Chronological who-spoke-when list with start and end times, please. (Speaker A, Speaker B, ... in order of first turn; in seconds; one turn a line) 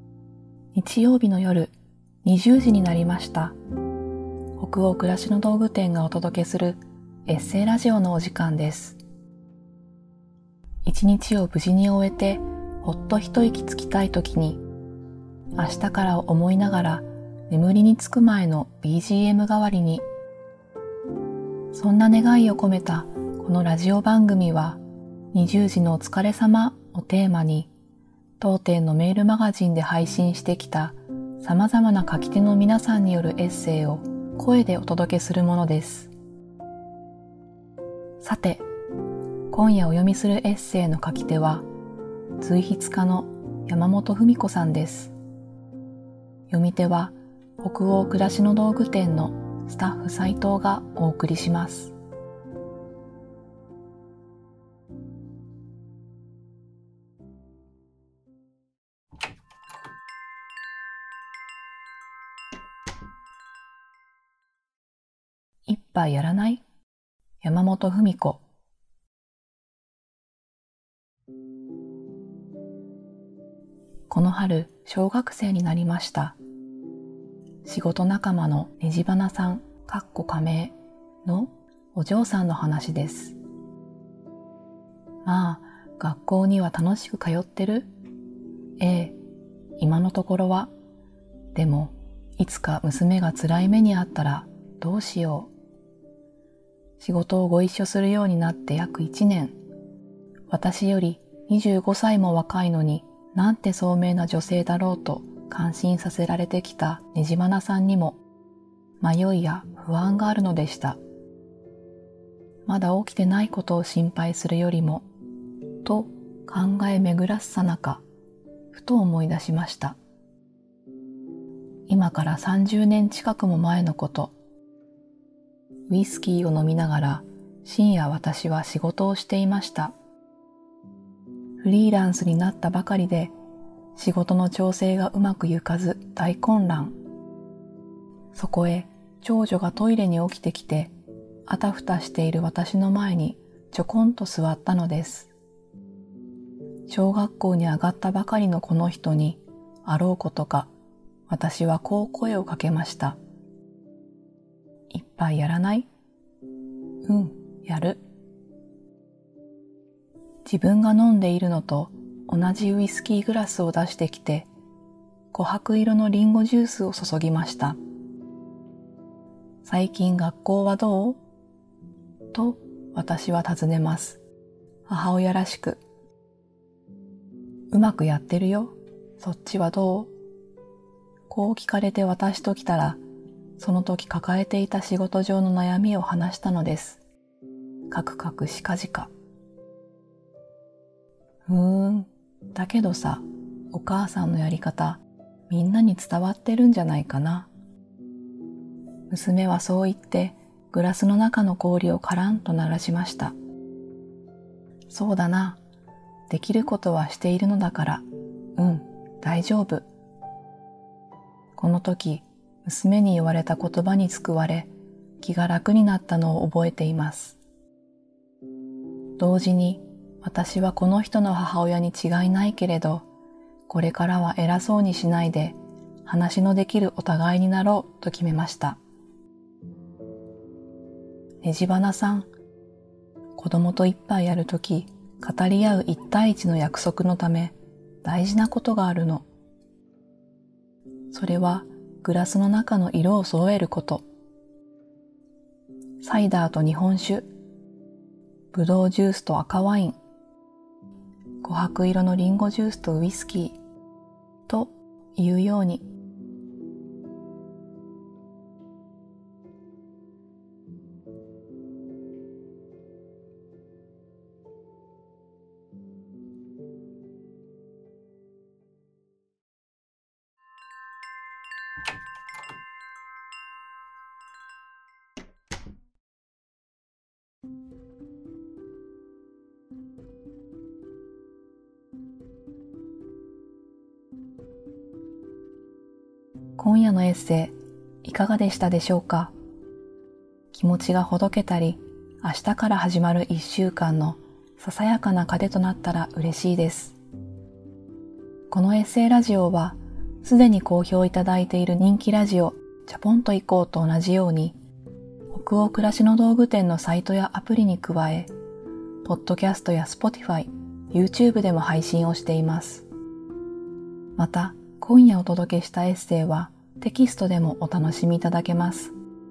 Speaker A: 0.7-3.6
Speaker A: 4.6-9.0
Speaker A: 10.8-14.6
Speaker A: 15.6-20.1
Speaker A: 21.7-24.8
Speaker A: 25.3-27.7
Speaker A: 28.4-36.1
Speaker A: 38.2-38.6
Speaker A: 39.5-41.6
Speaker A: 42.4-45.1
Speaker A: 46.5-51.9
Speaker A: 65.7-66.6
Speaker A: 67.4-68.4
Speaker A: 74.1-76.4
Speaker A: 77.7-80.7
Speaker A: 81.2-83.4
Speaker A: 85.2-87.9
Speaker A: 88.8-89.2
Speaker A: 89.8-90.7
Speaker A: 91.5-95.5
Speaker A: 97.0-99.5
Speaker A: 100.5-108.2
Speaker A: 109.0-111.0
Speaker A: 112.7-115.1
Speaker A: 115.8-118.0
Speaker A: 118.7-120.0
Speaker A: 121.9-124.3
Speaker A: 125.9-129.9
Speaker A: 131.6-133.3
Speaker A: 134.0-137.0
Speaker A: 138.3-140.9
Speaker A: 141.5-145.3
Speaker A: 146.9-150.7
Speaker A: 151.3-153.2
Speaker A: 154.9-155.9
Speaker A: 157.0-158.0
Speaker A: 160.5-164.5
Speaker A: 165.3-167.8
Speaker A: 169.6-171.2
Speaker A: 172.3-174.2
Speaker A: 174.9-175.8
Speaker A: 177.7-180.1
Speaker A: 181.3-183.0
Speaker A: 183.6-187.0
Speaker A: 187.9-189.1
Speaker A: 191.5-197.5
Speaker A: 199.1-203.3
Speaker A: 204.9-205.6
Speaker A: 206.3-209.9
Speaker A: 211.6-217.4
Speaker A: 219.2-223.1
Speaker A: 223.7-228.8
Speaker A: 231.4-232.3
Speaker A: 233.4-239.2
Speaker A: 241.1-244.0
Speaker A: 246.0-247.3
Speaker A: 248.5-250.0
Speaker A: 251.4-253.6
Speaker A: 254.5-255.8
Speaker A: 286.6-289.3
Speaker A: 290.5-297.0
Speaker A: 298.5-304.6
Speaker A: 305.3-308.3
Speaker A: 309.0-312.9
Speaker A: 314.2-318.9